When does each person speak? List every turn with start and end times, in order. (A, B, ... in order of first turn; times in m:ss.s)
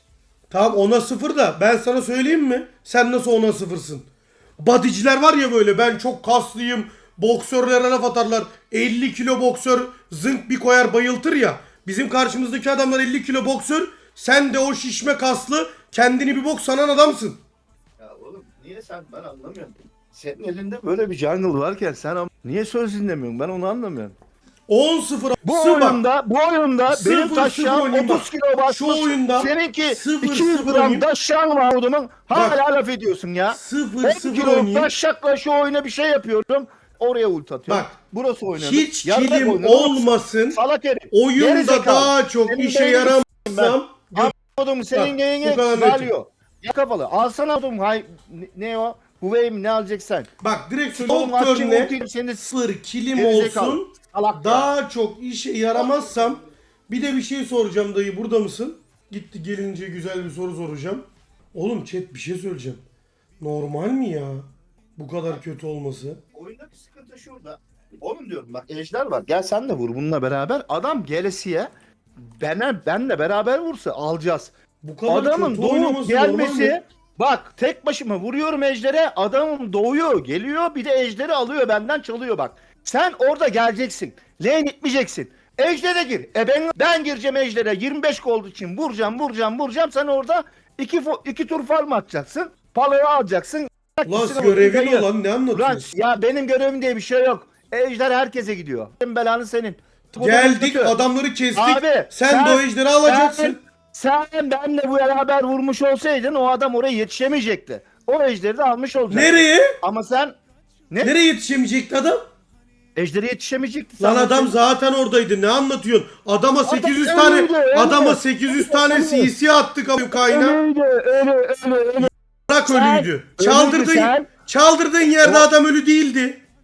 0:00.5-0:04.1 A
0:04.6-0:17.4 A
0:18.0-0:24.2 B
0:24.7-0:26.0 A
0:25.4-0:50.3 B
0:26.9-0:31.1 A
0:32.3-0:32.6 A
0:33.5-0:34.9 A
0:37.7-0:37.9 A
0:38.6-0:40.6 A
0:41.1-0:44.3 A
0:44.9-0:46.1 A
0:50.4-1:02.8 A
0:50.9-0:52.5 B
0:53.1-0:54.7 B
0:55.7-0:56.4 B
1:03.4-1:06.2 A
1:06.3-1:14.5 B
1:14.8-1:16.8 A
1:15.1-1:41.0 B
1:34.1-1:35.9 A
1:40.2-1:43.6 A
1:41.6-1:50.4 B
1:49.1-1:49.8 A
1:51.0-1:52.2 A
1:53.0-1:54.6 B
1:54.0-2:00.6 A
1:56.6-1:59.3 B
2:00.1-2:02.1 B
2:02.0-2:06.4 A
2:02.6-2:04.3 B
2:05.2-2:05.5 B